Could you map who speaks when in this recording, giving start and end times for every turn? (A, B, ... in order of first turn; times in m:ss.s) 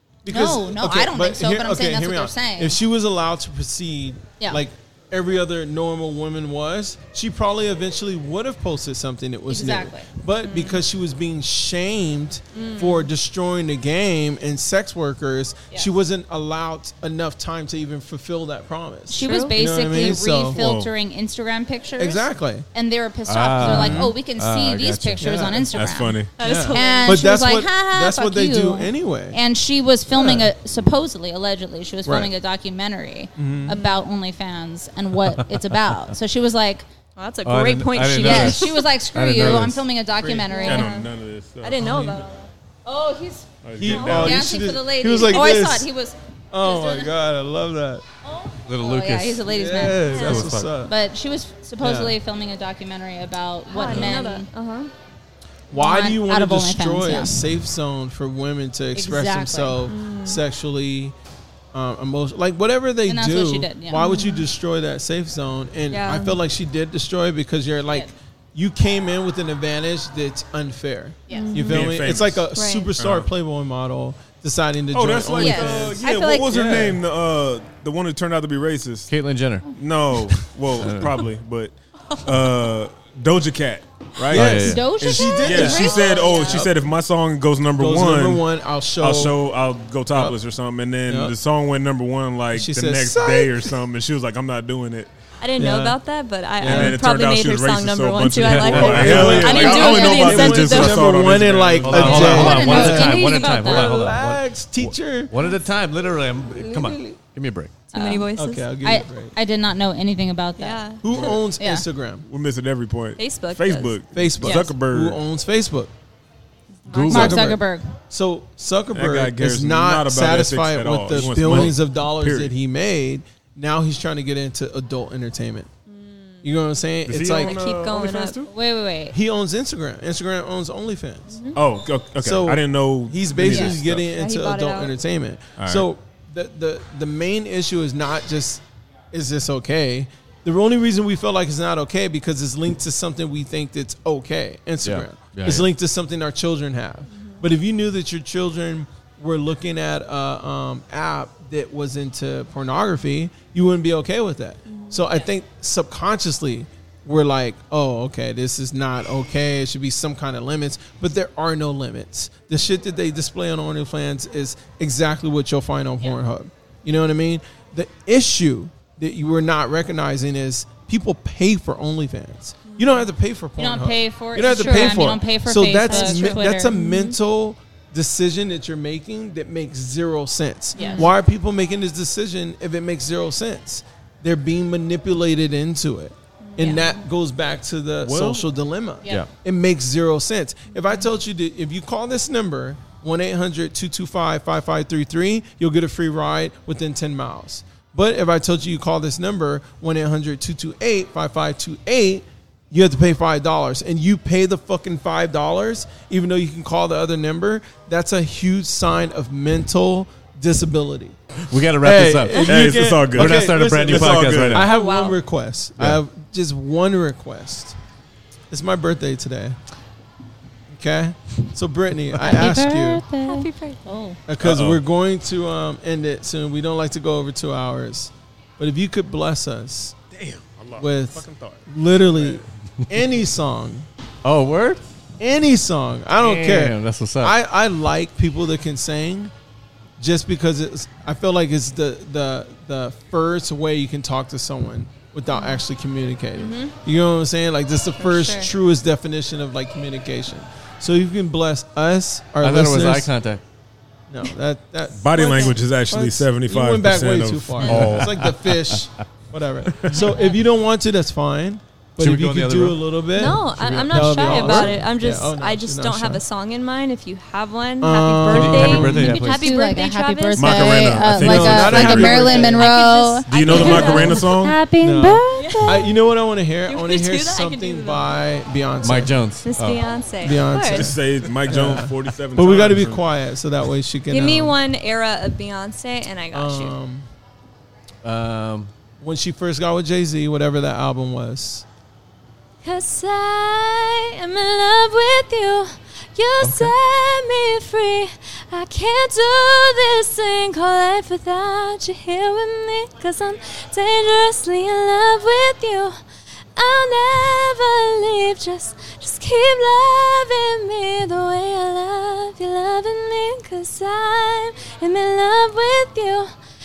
0:00.2-0:20.6 A
0:00.3-0:02.8 B
0:09.5-0:10.1 B
0:10.4-0:10.8 C
0:12.5-0:13.1 C
0:19.1-0:36.8 B
0:19.2-0:19.8 C
0:20.5-0:20.9 D
0:22.0-0:22.7 A
0:23.3-0:25.6 E
0:23.6-0:24.2 A
0:25.2-0:25.7 A
0:25.7-0:26.6 D
0:26.4-0:27.2 C
0:26.4-0:29.4 A
0:30.1-0:30.5 A
0:32.1-0:32.3 A
0:33.4-0:33.8 A
0:33.7-0:34.1 C
0:37.2-0:38.8 C
0:37.4-0:39.8 E
0:38.2-0:41.0 B
0:40.2-0:40.7 A
0:40.5-0:41.1 C
0:40.6-0:42.1 D
0:41.6-0:42.5 C
0:41.8-0:42.2 A
0:42.9-0:47.1 B
0:43.6-0:44.6 D
0:43.8-0:45.9 A
0:43.8-0:44.2 C
0:46.5-0:48.0 A
0:48.2-0:50.2 B
0:48.7-0:50.7 E
0:49.5-0:50.9 A
0:50.0-0:50.5 C
0:50.7-0:54.5 B
0:51.8-0:52.2 A
0:53.7-0:54.9 C
0:53.9-0:54.2 A
0:55.7-1:01.1 A
0:55.7-0:57.4 B
0:58.9-0:59.8 B
0:59.9-1:00.4 C
1:01.7-1:17.0 A
1:03.1-1:04.1 B
1:04.0-1:04.5 C
1:05.9-1:06.4 C
1:11.3-1:11.6 B
1:11.3-1:12.0 C
1:11.6-1:13.3 D
1:12.6-1:12.9 C
1:14.9-1:19.1 D
1:15.4-1:16.5 B
1:19.1-1:19.7 E
1:19.7-1:28.4 D
1:20.8-1:21.2 E
1:24.3-1:26.7 A
1:24.3-1:25.0 E
1:24.6-1:26.6 B
1:25.2-1:26.6 C
1:27.8-1:29.4 A
1:29.0-1:35.1 D
1:31.1-1:31.4 A
1:32.5-1:33.7 A
1:35.4-1:41.1 C
1:35.6-1:36.0 A
1:36.6-1:37.0 A
1:36.6-1:42.9 D
1:38.3-1:39.4 E
1:38.7-1:45.4 A
1:41.8-1:47.8 E
1:42.2-1:44.2 B
1:42.5-1:43.0 C
1:47.9-1:48.7 C
1:47.9-1:48.3 B
1:48.4-1:49.4 A
1:48.8-1:50.9 B
1:50.6-1:51.4 C
1:51.0-1:52.3 A
1:51.1-1:51.4 D
1:51.6-1:51.9 B
1:52.3-1:55.2 D
1:53.2-1:54.7 C
1:54.1-1:55.9 A
1:56.9-1:57.5 E
1:56.9-1:57.4 C
1:57.0-2:05.7 A
1:57.0-1:57.9 B
1:58.9-2:02.5 D
2:05.9-2:06.5 C
2:06.4-2:07.6 A
2:07.1-2:08.5 D
2:07.2-2:08.5 C
2:08.5-2:09.2 B
2:09.1-2:11.5 A
2:11.3-2:11.6 C
2:11.6-2:14.1 D
2:12.2-3:31.2 A
2:13.5-2:13.7 B
2:14.1-2:14.9 C
2:15.6-2:15.9 D
2:24.8-2:25.7 E
2:27.1-2:27.4 C
2:34.7-2:35.3 C
2:52.7-2:53.1 C
2:53.6-2:56.8 B
2:54.4-2:55.2 C
2:55.9-2:57.2 C
3:00.8-3:01.1 B
3:00.8-3:01.1 C
3:06.4-3:06.9 C
3:06.6-3:07.0 B
3:08.0-3:08.5 E
3:09.1-3:09.3 E
3:10.7-3:11.0 C
3:31.4-3:32.6 E
3:31.7-3:37.8 A
3:32.4-3:34.7 D
3:33.1-3:34.7 E
3:34.6-3:35.2 C
3:38.5-3:39.6 A
3:40.7-3:43.0 A
3:42.2-3:44.2 B
3:43.2-3:43.8 C
3:44.3-3:50.0 A
3:44.4-3:44.8 D
3:50.1-3:52.4 D
3:50.8-3:53.9 A
3:54.2-3:54.8 E
3:55.2-3:59.3 A
3:56.2-3:57.4 E
4:00.0-4:13.1 A
4:05.3-4:05.6 C
4:06.4-4:06.7 C
4:08.0-4:08.5 C
4:12.4-4:13.4 E
4:14.1-4:26.2 A
4:14.9-4:18.2 D
4:15.2-4:15.6 C
4:17.6-4:17.9 C
4:18.1-4:18.7 E
4:19.9-4:20.3 C
4:22.0-4:24.8 E
4:23.1-4:31.1 C
4:27.8-4:29.2 A
4:28.3-4:29.5 E
4:29.0-4:35.9 B
4:30.4-4:32.5 D
4:31.1-4:32.7 A
4:32.5-4:34.2 C
4:33.3-4:34.6 D
4:33.4-4:34.2 A
4:34.7-4:39.2 A
4:35.4-4:35.9 C
4:36.6-4:38.2 C
4:38.8-4:40.0 E
4:39.4-4:41.0 C
4:40.2-4:44.6 A
4:40.7-4:43.0 D
4:44.1-4:46.8 C
4:46.3-4:47.1 A
4:48.0-4:48.7 E
4:49.0-4:51.6 A
4:52.6-5:06.0 C
4:56.4-4:56.7 E
5:06.6-5:16.3 C